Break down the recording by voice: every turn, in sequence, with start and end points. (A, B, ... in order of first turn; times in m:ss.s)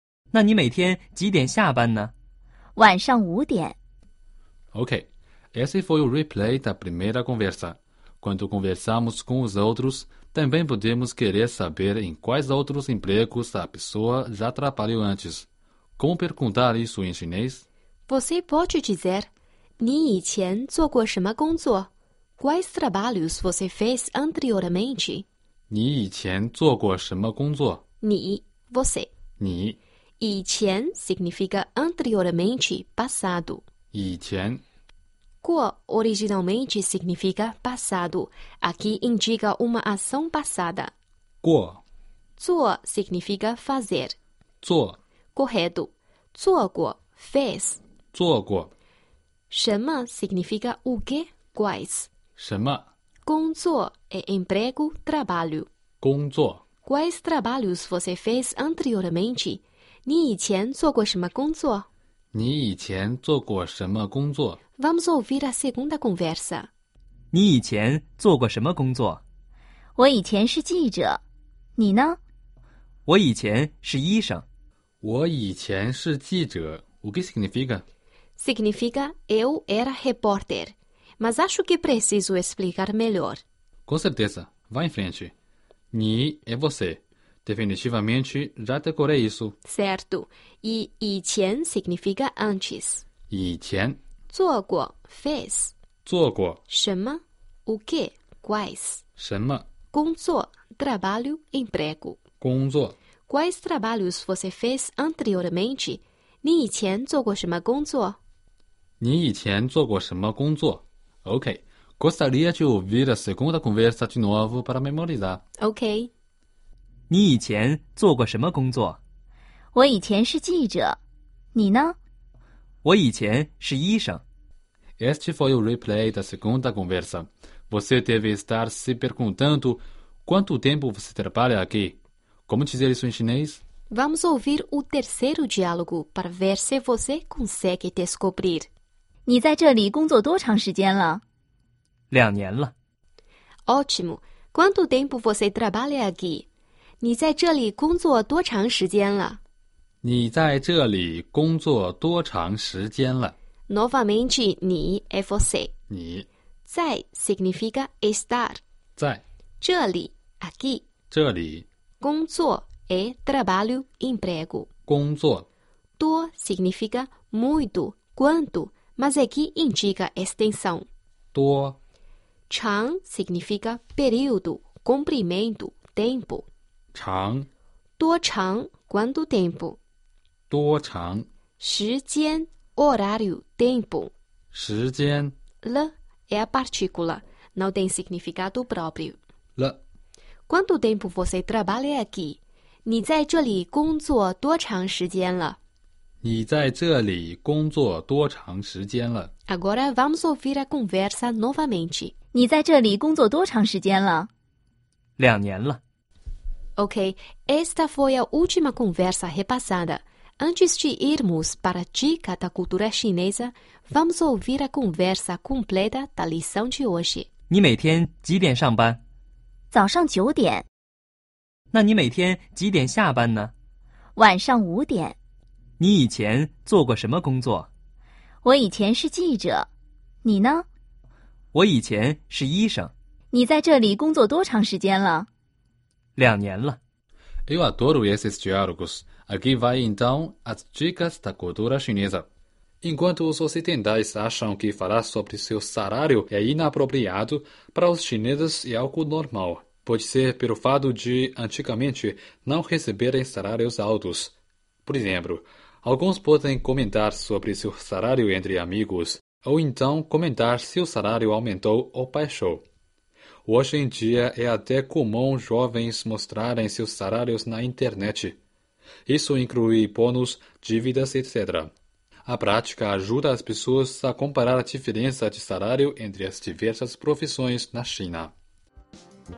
0:00.3-0:02.1 A
0:02.8-0:03.8 B
0:04.7-0:17.7 C
0:18.1-0:25.3 D
0:25.7-0:27.8 C
0:28.0-0:29.1 D
0:29.4-0:29.8 C
0:30.2-0:33.6 D
0:33.9-0:34.6 C
0:35.4-0:40.9 D
0:41.4-0:41.8 C
0:42.4-0:44.2 D
0:44.6-0:45.0 C
0:45.3-0:47.8 D
0:48.1-0:48.7 C
0:49.5-0:52.1 D
0:52.4-0:52.9 C
0:53.3-0:55.7 D
0:56.0-0:56.6 C
0:56.8-1:01.9 D
1:02.3-1:04.6 C
1:04.8-1:06.7 D
1:07.3-1:09.2 A
1:10.0-1:11.2 B
1:11.8-1:12.2 B
1:13.1-1:14.4 A
1:15.0-1:17.8 C
1:18.4-1:23.4 D
1:23.9-1:25.3 C
1:25.9-1:29.6 C
1:29.6-1:33.0 D
1:33.3-1:34.0 C
1:34.3-1:35.8 D
1:36.0-1:36.6 C
1:36.7-1:39.0 D
1:39.2-1:39.7 C
1:39.9-1:42.2 D
1:42.4-1:43.0 C
1:43.3-1:48.2 D
1:49.0-1:55.4 C
1:55.6-1:56.1 D
1:57.1-1:59.0 A
1:59.7-2:01.0 B
2:01.6-2:02.0 B
2:02.8-2:04.2 A
2:05.0-2:13.6 C
2:13.9-2:18.7 D
2:19.3-2:21.2 B
2:22.1-2:22.7 A
2:23.7-2:26.5 D
2:27.0-2:29.4 D
2:30.0-2:33.4 C
2:33.7-2:35.7 D
2:35.9-2:36.3 C
2:36.7-2:38.6 D
2:39.0-2:39.2 C
2:39.6-2:40.8 D
2:41.1-2:41.7 C
2:42.0-2:44.7 D
2:44.9-2:45.5 C
2:46.0-2:50.9 D
2:51.3-2:51.8 C
2:52.5-2:56.5 D
2:56.9-2:57.5 C
2:58.0-2:59.8 D
3:00.5-3:01.3 C
3:01.6-3:04.1 D
3:04.5-3:05.4 C
3:05.6-3:09.2 D
3:10.5-3:15.6 D
3:16.2-3:19.3 C
3:19.5-3:22.1 D
3:22.3-3:24.3 B
3:25.2-3:25.8 A
3:26.8-3:37.3 D
3:37.5-3:39.0 A
3:39.7-3:40.7 B
3:41.7-3:43.5 A
3:44.2-3:45.2 B
3:45.8-3:47.7 A
3:48.4-3:49.7 B
3:50.2-3:50.7 B
3:51.5-3:52.9 A
3:53.3-3:55.3 B
3:56.2-3:56.8 A
3:57.5-4:02.3 C
4:02.8-4:14.4 C
4:14.9-4:22.6 C
4:23.5-4:28.4 C
4:29.1-4:31.7 C
4:32.3-4:38.3 C